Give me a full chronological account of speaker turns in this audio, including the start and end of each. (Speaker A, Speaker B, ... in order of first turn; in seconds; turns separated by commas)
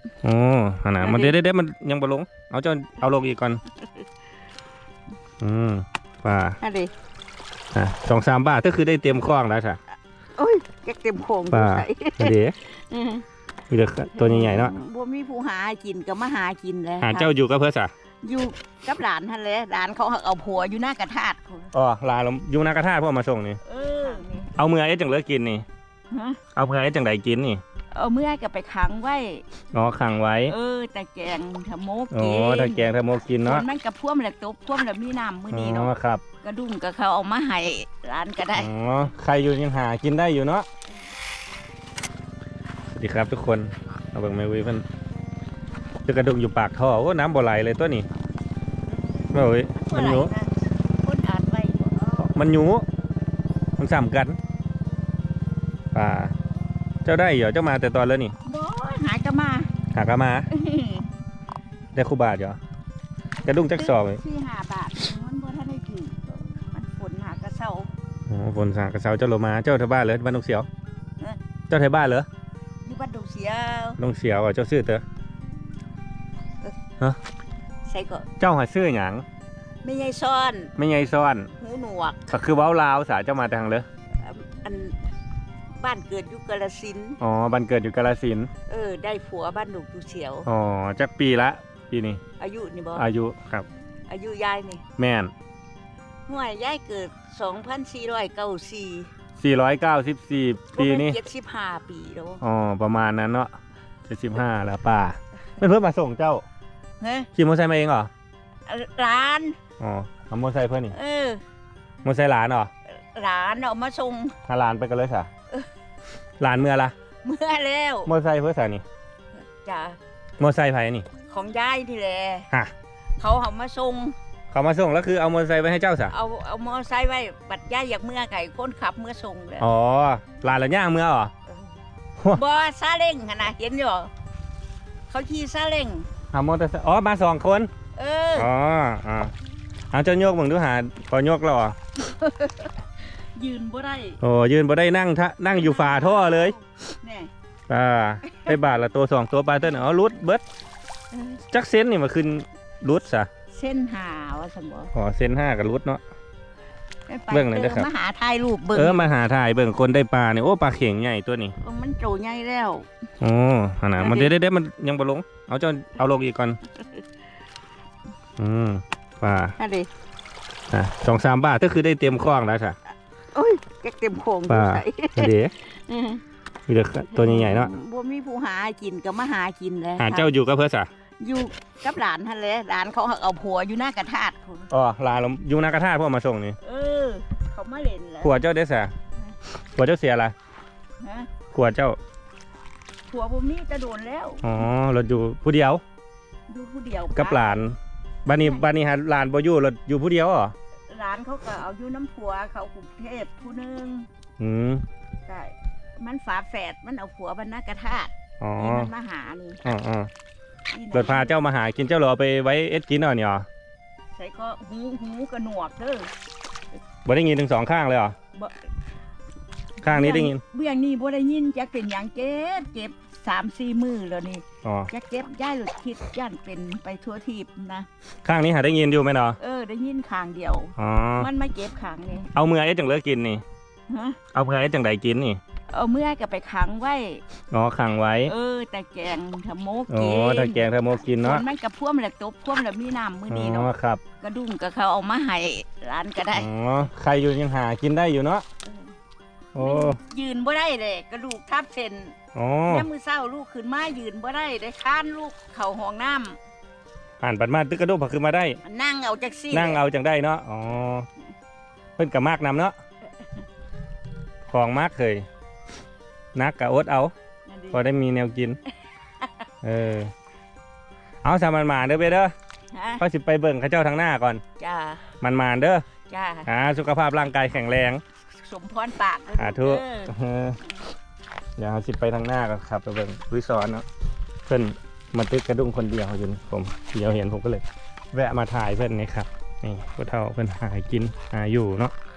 Speaker A: 0.2-3.6, Speaker B: 1.0-1.4, Speaker A: 5.4-6.6, Speaker B: 6.6-6.9, Speaker A: 7.7-9.8, Speaker B: 10.4-13.2, Speaker A: 11.5-12.5, Speaker A: 13.7-14.7, Speaker B: 14.2-17.3, Speaker A: 17.0-17.9, Speaker B: 18.2-21.7, Speaker A: 21.7-23.6, Speaker B: 23.6-24.5, Speaker A: 24.6-25.6, Speaker B: 26.1-26.4, Speaker A: 26.5-27.6, Speaker B: 27.9-29.4, Speaker A: 29.7-30.5, Speaker B: 30.5-32.9, Speaker A: 32.1-33.6, Speaker B: 33.4-38.7, Speaker A: 35.5-36.2, Speaker A: 38.5-40.6, Speaker A: 43.0-44.8, Speaker A: 46.0-48.1, Speaker B: 49.2-52.2, Speaker A: 49.3-50.3, Speaker A: 52.2-52.8, Speaker A: 53.8-54.4, Speaker A: 55.9-56.3, Speaker A: 57.0-58.3, Speaker B: 58.4-59.7, Speaker A: 59.9-60.5, Speaker B: 60.5-61.1, Speaker A: 61.9-62.6, Speaker A: 63.4-64.2, Speaker B: 63.7-67.9, Speaker A: 68.3-70.7, Speaker A: 71.7-72.2, Speaker B: 72.8-74.0, Speaker A: 74.0-75.0, Speaker B: 77.8-78.3, Speaker A: 78.4-79.2, Speaker B: 79.8-80.7, Speaker A: 80.8-81.5, Speaker B: 81.5-82.2, Speaker A: 82.3-83.8, Speaker B: 84.2-85.0, Speaker B: 85.7-87.2, Speaker A: 87.2-88.5, Speaker B: 88.7-90.5, Speaker A: 90.5-92.2, Speaker B: 92.4-93.0, Speaker A: 93.0-93.7, Speaker B: 94.1-94.8, Speaker A: 95.0-95.3, Speaker B: 96.3-99.1, Speaker A: 99.4-101.2, Speaker B: 100.7-102.4, Speaker A: 102.4-103.5, Speaker A: 104.1-106.4, Speaker B: 107.0-107.3, Speaker A: 107.3-108.1, Speaker B: 108.7-109.6, Speaker A: 109.8-110.9, Speaker B: 110.9-111.4, Speaker A: 112.0-112.7, Speaker B: 112.9-114.3, Speaker A: 114.5-115.3, Speaker A: 116.4-116.9, Speaker B: 117.2-118.1, Speaker A: 118.0-118.8, Speaker B: 119.5-120.0, Speaker A: 120.4-121.1, Speaker B: 121.2-122.5, Speaker B: 123.2-124.1, Speaker A: 124.5-126.1, Speaker B: 126.1-129.7, Speaker A: 129.6-131.3, Speaker B: 132.3-134.1, Speaker B: 135.1-136.1, Speaker A: 136.3-137.7, Speaker B: 137.9-138.5, Speaker A: 138.3-139.3, Speaker A: 139.9-141.8, Speaker B: 142.0-144.2, Speaker A: 144.2-146.5, Speaker B: 145.5-147.3, Speaker A: 147.7-150.4, Speaker B: 151.1-151.4, Speaker A: 151.5-153.3, Speaker B: 153.5-154.9, Speaker A: 154.9-156.0, Speaker B: 157.1-159.1, Speaker A: 157.3-157.9, Speaker A: 158.7-161.6, Speaker B: 161.6-162.9, Speaker A: 163.2-166.6, Speaker B: 164.0-164.3, Speaker A: 168.4-169.6, Speaker B: 169.6-169.9, Speaker A: 170.7-172.8, Speaker B: 173.3-176.2, Speaker A: 174.5-175.5, Speaker A: 176.7-177.7, Speaker B: 177.1-180.3, Speaker A: 180.0-180.9, Speaker B: 181.2-184.7, Speaker A: 184.7-186.6, Speaker B: 186.6-188.4, Speaker A: 188.2-188.9, Speaker A: 189.8-190.3, Speaker B: 191.0-191.3, Speaker A: 191.5-192.0, Speaker B: 193.1-194.5, Speaker A: 194.4-195.8, Speaker B: 196.5-197.6, Speaker A: 197.1-200.5, Speaker B: 198.3-198.7, Speaker B: 200.9-204.1, Speaker A: 204.4-204.8, Speaker B: 205.2-209.6, Speaker A: 208.4-208.9, Speaker A: 209.6-210.1, Speaker B: 210.7-211.3, Speaker A: 210.9-213.5, Speaker B: 214.1-216.1, Speaker A: 217.0-218.2, Speaker A: 219.8-220.4, Speaker B: 219.9-227.9, Speaker A: 224.6-224.9, Speaker A: 228.2-229.4, Speaker B: 229.4-232.3, Speaker A: 230.8-231.3, Speaker A: 232.3-233.4, Speaker B: 233.9-234.2, Speaker A: 234.3-235.4, Speaker B: 235.7-237.2, Speaker A: 237.5-238.3, Speaker B: 238.2-246.5, Speaker A: 239.9-241.4, Speaker A: 243.3-244.0, Speaker A: 246.3-248.4, Speaker A: 249.5-250.0, Speaker B: 249.6-252.2, Speaker A: 252.3-252.9, Speaker B: 252.7-256.4, Speaker A: 257.2-258.6, Speaker B: 258.6-259.8, Speaker A: 259.5-261.1, Speaker A: 262.0-262.8, Speaker A: 264.5-265.2, Speaker A: 266.3-267.1, Speaker B: 267.5-267.8, Speaker A: 267.7-268.6, Speaker A: 269.6-270.1, Speaker A: 271.2-272.3, Speaker B: 272.7-273.0, Speaker A: 273.0-274.4, Speaker B: 274.6-275.0, Speaker A: 275.2-275.8, Speaker B: 276.1-276.5, Speaker A: 276.4-278.0, Speaker B: 278.4-280.1, Speaker A: 279.4-280.8, Speaker A: 281.6-283.8, Speaker A: 284.4-291.9